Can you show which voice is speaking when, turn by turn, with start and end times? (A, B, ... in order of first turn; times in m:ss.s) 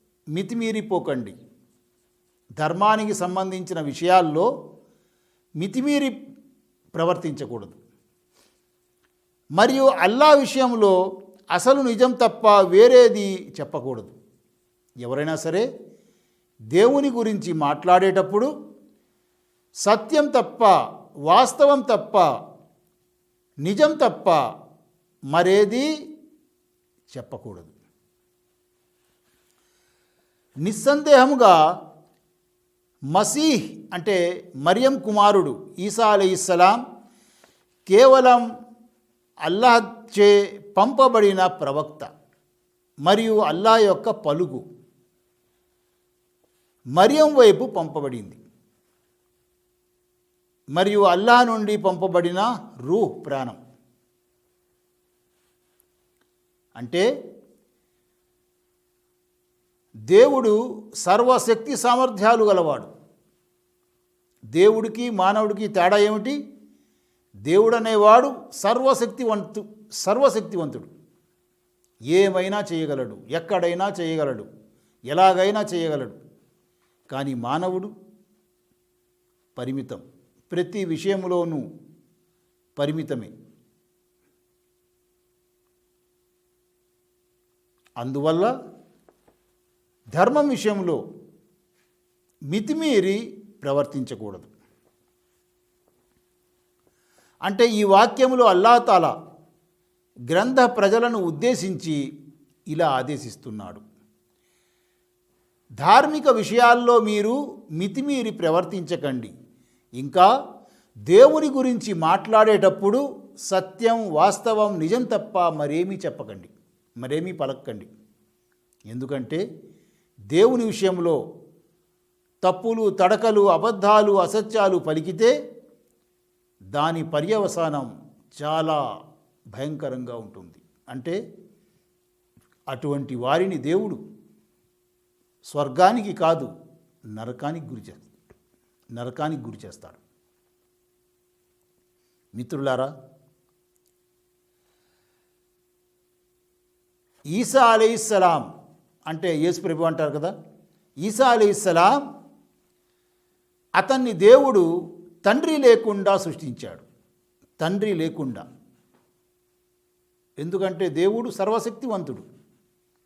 0:00.4-0:01.4 A
0:02.6-0:04.5 A
0:05.6-0:06.1 A
0:07.0-0:07.8 A
0:09.6-0:10.9 A
0:11.5-0:14.1 A
0:15.0-0:15.7 A
0:16.7-0:18.5 A
0:19.8-0:20.7 A
0:21.3-0:22.2 A
0:23.6-0:24.4 A
0:25.3-0:25.9 A
0:27.1-0:27.7 A
0:30.6-0:31.6 A
0:33.1-0:36.8 A
0:37.9-0:38.4 A
0:39.5-0:42.1 A
0:43.1-0:44.6 A
0:47.0-0:48.4 A
0:50.8-0:53.6 A
0:56.8-0:57.1 A
1:00.1-1:02.9 A
1:04.6-1:06.4 A
1:07.5-1:10.9 A
1:12.1-1:14.5 A
1:15.1-1:16.2 A
1:17.1-1:17.9 A
1:19.6-1:21.6 A
1:22.8-1:23.3 A
1:28.0-1:28.5 A
1:30.2-1:31.0 A
1:32.5-1:34.5 A
1:37.5-1:39.1 A
1:40.3-1:42.0 A
1:42.7-1:43.8 A
1:45.8-1:49.3 A
1:50.0-1:50.2 A
1:51.1-1:57.9 A
1:58.9-1:59.4 A
2:00.3-2:01.2 A
2:02.4-2:05.3 A
2:06.8-2:08.8 A
2:09.6-2:11.2 A
2:12.7-2:14.0 A
2:15.5-2:16.5 A
2:17.2-2:18.1 A
2:19.0-2:20.0 A
2:22.4-2:22.9 A
2:27.3-2:28.4 A
2:29.1-2:30.3 A
2:31.0-2:31.9 A
2:33.8-2:34.6 A
2:35.2-2:36.8 A
2:37.6-2:38.4 A
2:40.4-2:42.2 A